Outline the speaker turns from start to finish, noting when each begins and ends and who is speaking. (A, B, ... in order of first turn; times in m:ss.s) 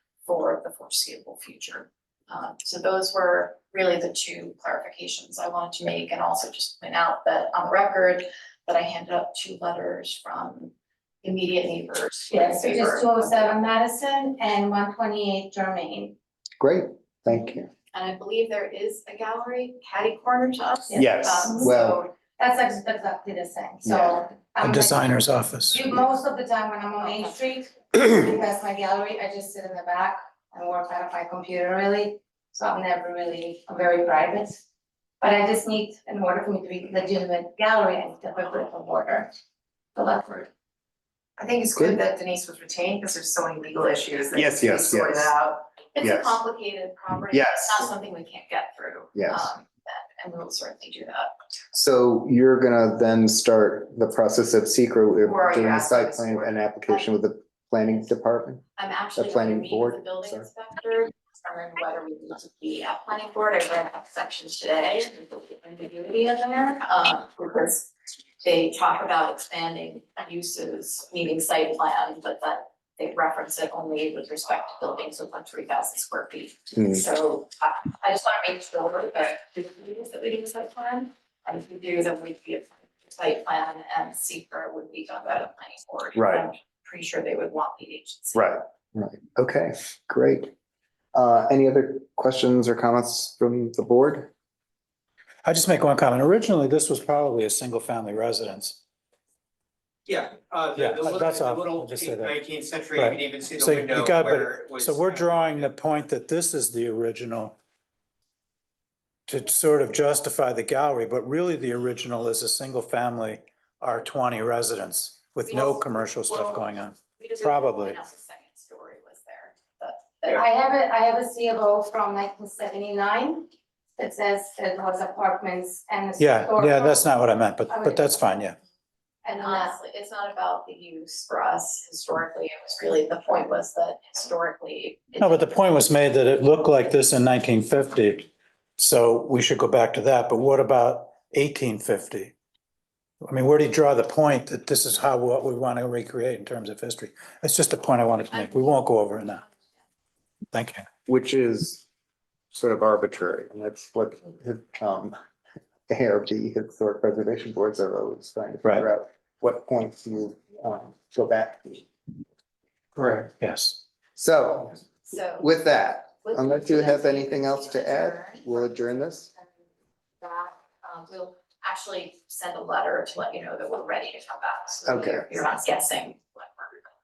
0:00.2-0:13.6 A
0:12.3-0:16.2 B
0:16.6-0:17.7 C
0:17.9-0:22.1 A
0:20.9-0:34.6 B
0:21.0-0:22.0 C
0:23.8-0:24.3 C
0:24.6-0:25.9 D
0:35.2-0:39.3 B
0:40.0-0:40.5 B
0:41.4-0:45.6 E
0:41.7-0:42.0 C
0:44.3-0:45.3 C
0:46.0-0:51.4 A
0:46.0-0:46.4 C
0:47.3-0:47.8 C
0:49.1-0:49.5 C
0:51.7-0:58.6 C
0:55.2-0:56.5 E
0:58.8-1:07.9 A
0:59.2-1:00.5 C
1:06.1-1:06.6 B
1:08.4-1:28.6 A
1:26.2-1:26.5 C
1:28.3-1:30.5 C
1:31.1-1:34.3 C
1:35.4-1:38.8 D
1:40.1-1:45.7 F
1:40.8-1:42.4 D
1:42.9-1:47.6 D
1:49.3-1:58.0 D
1:55.5-1:56.5 A
1:57.2-2:00.4 A
2:00.2-2:08.2 B
2:06.2-2:08.6 D
2:09.2-2:09.8 B
2:09.3-2:15.6 A
2:15.2-2:22.3 D
2:23.2-2:29.4 D
2:30.5-2:30.8 D
2:31.1-2:31.8 C
2:32.5-2:35.1 C
2:35.9-2:41.9 C
2:43.1-2:43.8 D
2:44.2-2:49.3 C
2:45.0-2:45.5 A
2:46.2-2:48.7 A
2:50.2-2:56.8 A
2:54.8-2:55.2 C